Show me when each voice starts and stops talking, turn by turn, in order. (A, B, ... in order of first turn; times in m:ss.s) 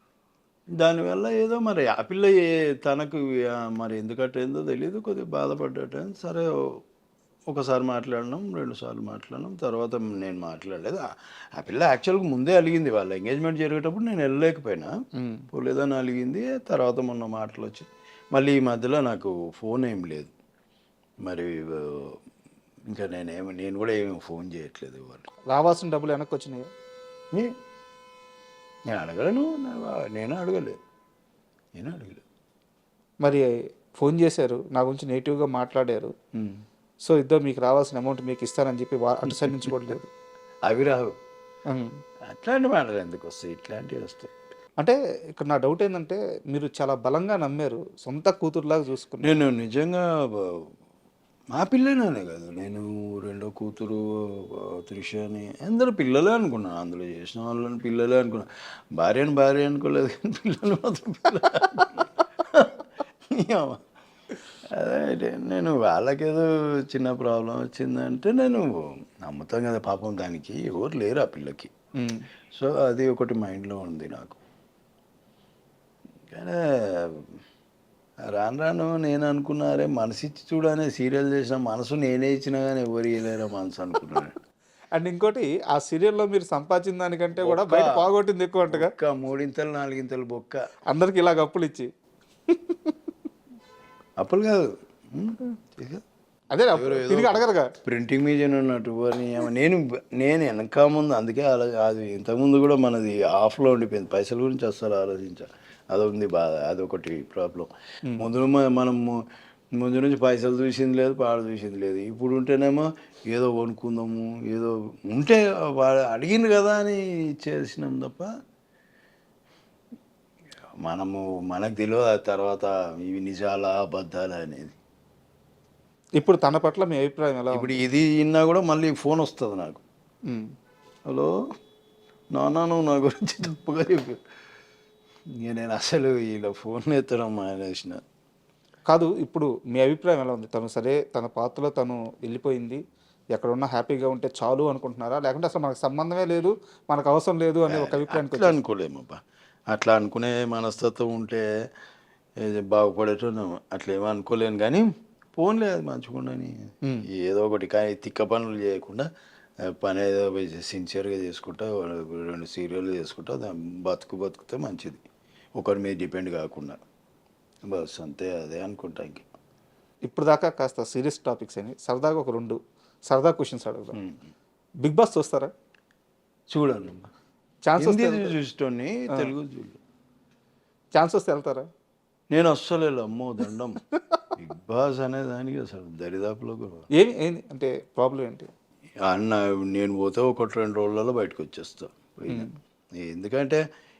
0:00.8-0:06.8 A
0:07.5-0:14.9 A
0:15.2-0:15.4 B
0:15.5-0:20.3 A
0:21.2-0:22.2 A
0:22.9-0:25.3 A
0:25.5-0:26.7 B
0:28.9-0:30.8 A
0:31.8-0:32.2 A
0:33.2-0:36.1 B
0:36.4-0:36.6 A
0:37.0-0:40.1 B
0:40.6-0:41.1 A
0:42.2-0:44.3 A
0:44.8-0:49.4 B
0:49.2-0:50.7 A
0:51.5-1:03.8 A
1:04.8-1:11.7 A
1:12.0-1:12.2 B
1:12.5-1:14.4 A
1:16.3-1:17.4 A
1:18.3-1:24.3 A
1:24.9-1:28.9 B
1:27.4-1:28.0 A
1:28.7-1:30.7 A
1:30.9-1:31.9 B
1:32.5-1:32.9 B
1:34.2-1:36.0 A
1:36.5-1:37.7 B
1:36.7-1:49.2 A
1:49.8-1:58.3 A
2:00.8-2:04.8 A
2:06.2-2:07.8 B
2:07.5-2:09.8 A
2:12.3-2:14.2 A
2:15.4-2:18.0 A
2:18.9-2:22.8 B
2:23.4-2:28.6 B
2:27.7-2:29.2 A
2:29.7-2:31.4 A
2:32.4-2:36.5 A
2:37.1-2:39.1 A
2:39.7-2:45.0 A
2:45.6-2:46.8 A
2:47.6-2:49.2 A
2:50.0-2:52.6 B
2:53.1-2:54.0 B
2:53.9-2:54.2 A
2:54.8-2:55.5 B
2:56.5-2:57.1 A
2:57.6-2:58.3 B
2:57.8-2:59.8 A
3:01.0-3:01.7 B
3:02.3-3:03.8 A
3:04.4-3:06.8 A
3:07.0-3:08.5 B
3:09.0-3:13.6 A